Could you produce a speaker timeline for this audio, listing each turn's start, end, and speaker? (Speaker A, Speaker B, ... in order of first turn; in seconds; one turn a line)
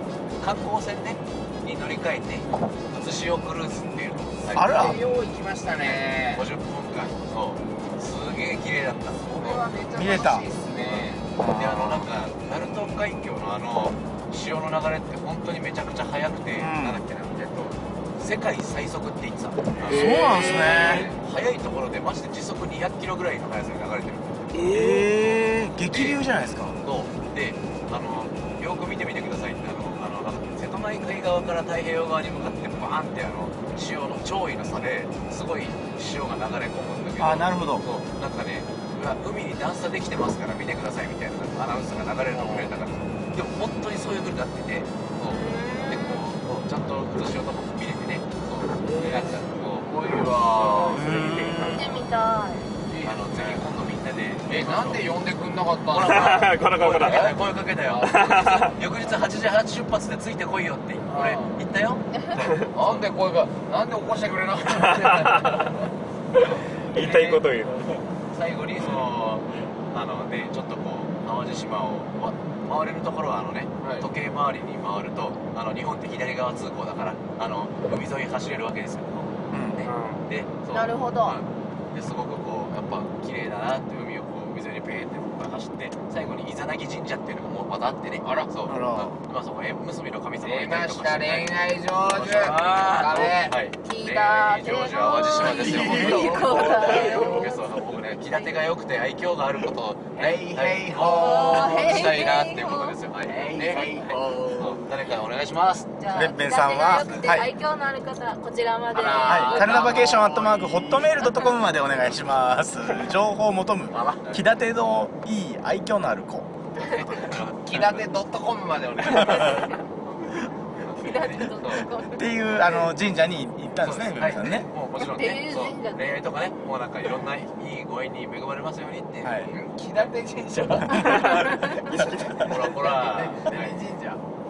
Speaker A: 0.4-5.0
Speaker B: 4.5-5.0
Speaker C: 4.6-6.5
Speaker A: 5.8-9.7
Speaker C: 9.1-11.3
Speaker B: 10.0-10.5
Speaker A: 10.7-26.2
Speaker B: 11.4-12.1
Speaker B: 16.6-17.0
Speaker C: 19.9-21.2
Speaker B: 19.9-21.1
Speaker D: 19.9-20.8
Speaker B: 24.5-26.8
Speaker A: 26.8-51.4
Speaker B: 37.2-37.9
Speaker C: 42.1-42.8
Speaker E: 45.3-46.2
Speaker C: 48.8-51.5
Speaker B: 50.9-52.0
Speaker D: 51.4-51.8
Speaker E: 51.7-52.7
Speaker C: 52.9-53.6
Speaker A: 53.0-55.2
Speaker C: 54.5-59.1
Speaker A: 55.9-63.1
Speaker D: 56.1-57.3
Speaker D: 58.0-58.8
Speaker C: 61.1-61.6
Speaker E: 62.1-62.4
Speaker D: 62.4-62.7
Speaker C: 62.7-65.9
Speaker D: 64.8-65.6
Speaker D: 66.4-68.0
Speaker C: 66.5-67.3
Speaker A: 67.0-67.4
Speaker A: 68.3-91.6
Speaker C: 73.8-74.1
Speaker B: 79.5-79.8
Speaker D: 79.8-80.2
Speaker E: 80.7-81.4
Speaker C: 88.2-88.5
Speaker B: 88.7-89.1
Speaker C: 90.4-93.6
Speaker A: 92.1-105.9
Speaker E: 93.8-97.7
Speaker C: 94.9-97.6
Speaker C: 100.1-102.3
Speaker E: 101.0-103.0
Speaker C: 103.2-104.9
Speaker E: 106.0-109.8
Speaker B: 106.1-107.5
Speaker C: 108.9-111.2
Speaker B: 109.2-116.5
Speaker A: 113.9-114.4
Speaker C: 114.0-114.4
Speaker A: 116.8-118.1
Speaker C: 117.2-119.8
Speaker B: 119.1-119.5
Speaker A: 120.8-121.9
Speaker E: 120.9-122.5
Speaker B: 121.8-124.7
Speaker A: 123.8-129.7
Speaker E: 125.0-126.2
Speaker B: 129.2-129.5
Speaker C: 129.5-134.2
Speaker D: 131.0-132.4
Speaker A: 132.4-133.8